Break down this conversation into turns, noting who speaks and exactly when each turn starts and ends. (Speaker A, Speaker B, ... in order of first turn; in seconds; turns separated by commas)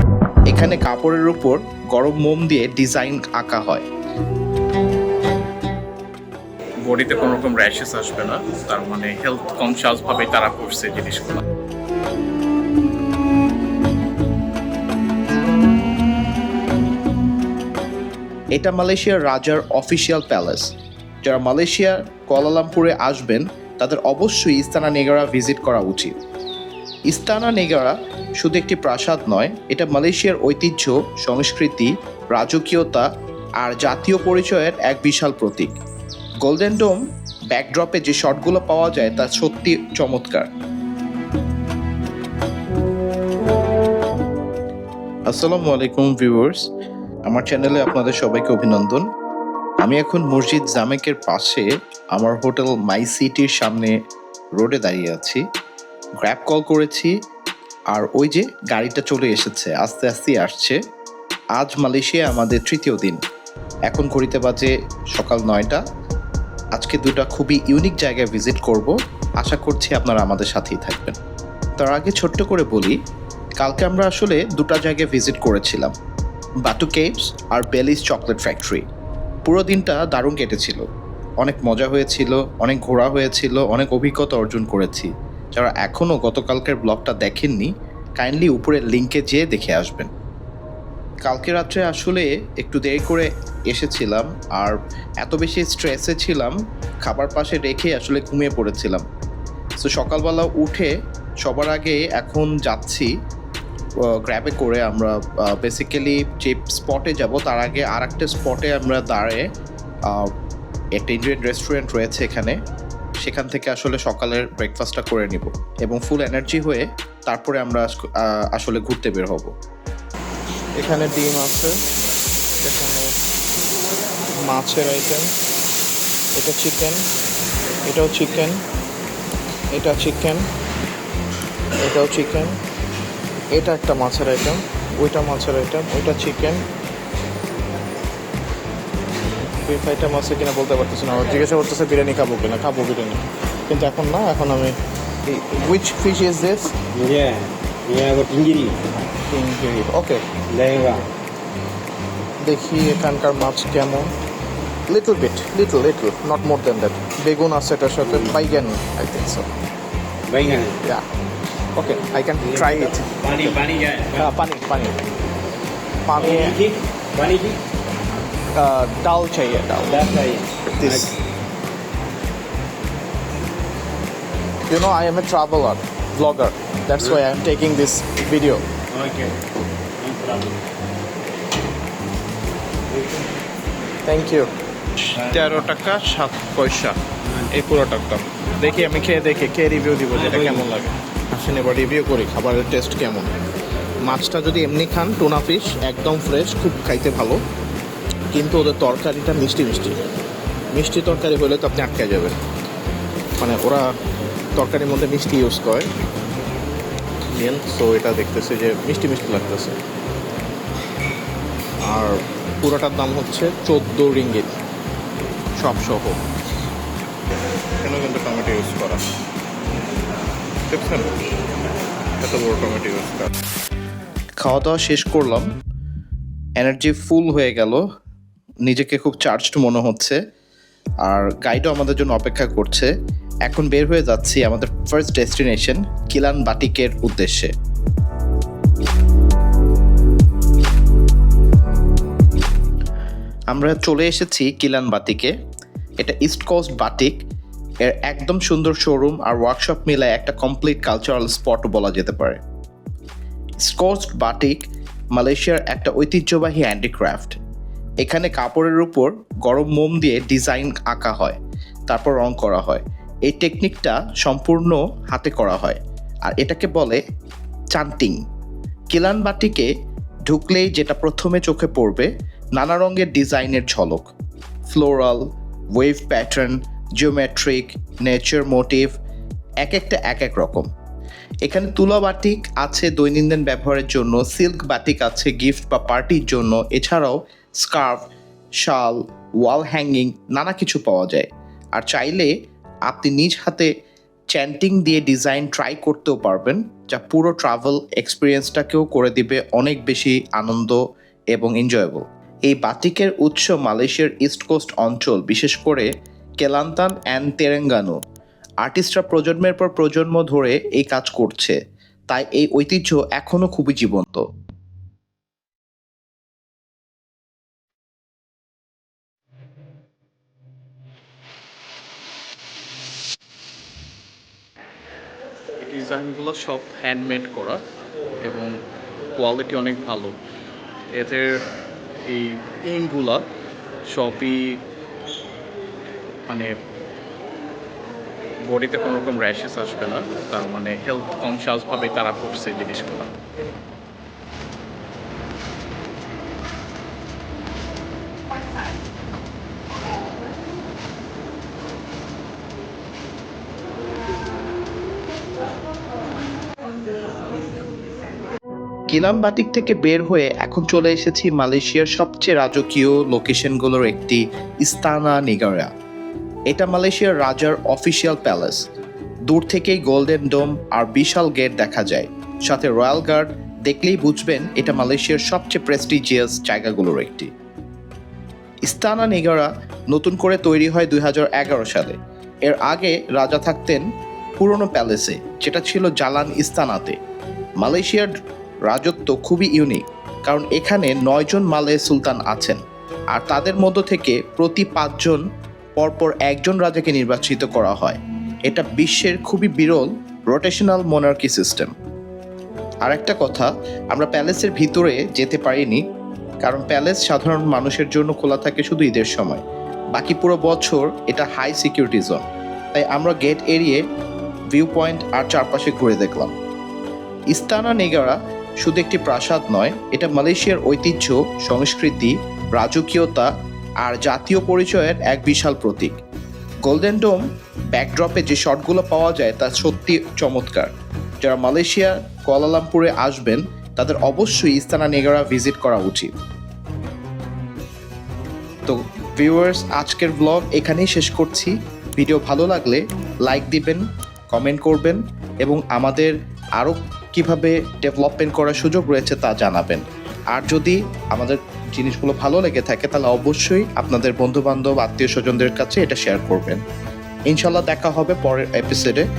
Speaker A: 0.5-3.9, Speaker B: 6.8-11.4, Speaker A: 18.6-20.7, Speaker A: 21.2-26.2, Speaker A: 27.1-33.1, Speaker A: 33.6-35.7, Speaker A: 36.4-37.0, Speaker A: 37.5-40.5, Speaker A: 45.3-46.6, Speaker A: 47.3-49.0, Speaker A: 49.8-53.9, Speaker A: 54.6-55.4, Speaker A: 56.2-57.1, Speaker A: 57.9-60.8, Speaker A: 61.6-63.2, Speaker A: 63.9-65.8, Speaker A: 66.8-71.2, Speaker A: 71.8-73.0, Speaker A: 73.6-75.9, Speaker A: 76.6-78.8, Speaker A: 79.5-80.8, Speaker A: 81.4-90.1, Speaker A: 91.2-99.0, Speaker A: 99.8-100.9, Speaker A: 101.4-103.1, Speaker A: 104.0-109.4, Speaker A: 111.0-112.6, Speaker A: 113.2-119.5, Speaker B: 120.8-121.7, Speaker B: 122.6-123.1, Speaker B: 124.5-125.3, Speaker B: 126.4-127.0, Speaker B: 127.9-128.6, Speaker B: 129.7-130.4, Speaker B: 131.8-132.6, Speaker B: 133.6-136.7, Speaker B: 139.6-144.8, Speaker B: 145.3-146.7, Speaker C: 146.9-148.8, Speaker B: 149.3-150.2, Speaker C: 150.5-151.1, Speaker B: 152.4-154.1, Speaker B: 154.9-159.5, Speaker C: 158.1-158.3, Speaker C: 160.3-160.8, Speaker B: 161.8-163.4, Speaker C: 162.4-164.3, Speaker B: 164.2-165.0, Speaker B: 166.1-166.6, Speaker C: 166.2-167.6, Speaker B: 168.6-170.1, Speaker C: 169.9-171.2, Speaker B: 170.8-171.2, Speaker B: 174.7-178.7, Speaker C: 178.9-179.4, Speaker C: 180.0-180.6, Speaker B: 184.1-184.5, Speaker B: 185.2-187.0, Speaker B: 187.5-193.3, Speaker B: 194.1-197.4, Speaker B: 198.3-200.0, Speaker B: 200.7-202.4, Speaker B: 203.4-203.8, Speaker B: 204.6-205.9, Speaker B: 207.3-209.8, Speaker B: 211.9-214.6, Speaker B: 215.6-216.2, Speaker B: 217.8-219.0, Speaker B: 220.7-221.1, Speaker B: 222.2-223.3, Speaker A: 224.4-225.5, Speaker A: 226.6-227.8, Speaker A: 228.7-230.2, Speaker A: 231.0-232.9, Speaker A: 233.5-237.5, Speaker A: 243.5-245.3, Speaker A: 246.0-247.2, Speaker A: 247.8-252.4, Speaker A: 253.6-254.6, Speaker A: 255.2-257.4, Speaker A: 258.0-261.4, Speaker A: 261.9-267.0, Speaker A: 267.7-268.2, Speaker A: 268.9-269.7, Speaker A: 270.3-274.1, Speaker A: 274.7-275.2, Speaker A: 275.8-278.9, Speaker A: 279.6-280.7, Speaker A: 281.4-288.0, Speaker A: 288.6-292.3, Speaker A: 292.9-293.7, Speaker A: 294.3-300.8, Speaker A: 301.3-305.9, Speaker A: 306.4-308.0, Speaker A: 308.6-311.6, Speaker A: 312.1-314.2, Speaker B: 325.6-327.6, Speaker B: 328.2-328.6, Speaker B: 329.2-330.2, Speaker B: 330.9-331.5, Speaker B: 332.1-333.3, Speaker B: 333.9-334.6, Speaker B: 336.3-336.6, Speaker B: 338.5-343.1, Speaker A: 358.9-365.7, Speaker A: 366.5-368.6, Speaker A: 369.3-377.3, Speaker A: 378.6-383.8, Speaker A: 384.4-387.0, Speaker A: 387.6-388.1, Speaker A: 388.7-392.6, Speaker A: 393.1-395.2, Speaker A: 395.8-401.7, Speaker A: 402.9-405.8, Speaker A: 406.4-412.2, Speaker A: 412.7-413.8, Speaker A: 414.5-416.3, Speaker A: 417.3-423.3, Speaker A: 423.8-426.0, Speaker A: 426.6-427.2, Speaker A: 427.7-436.1, Speaker A: 438.7-456.6, Speaker A: 457.3-459.0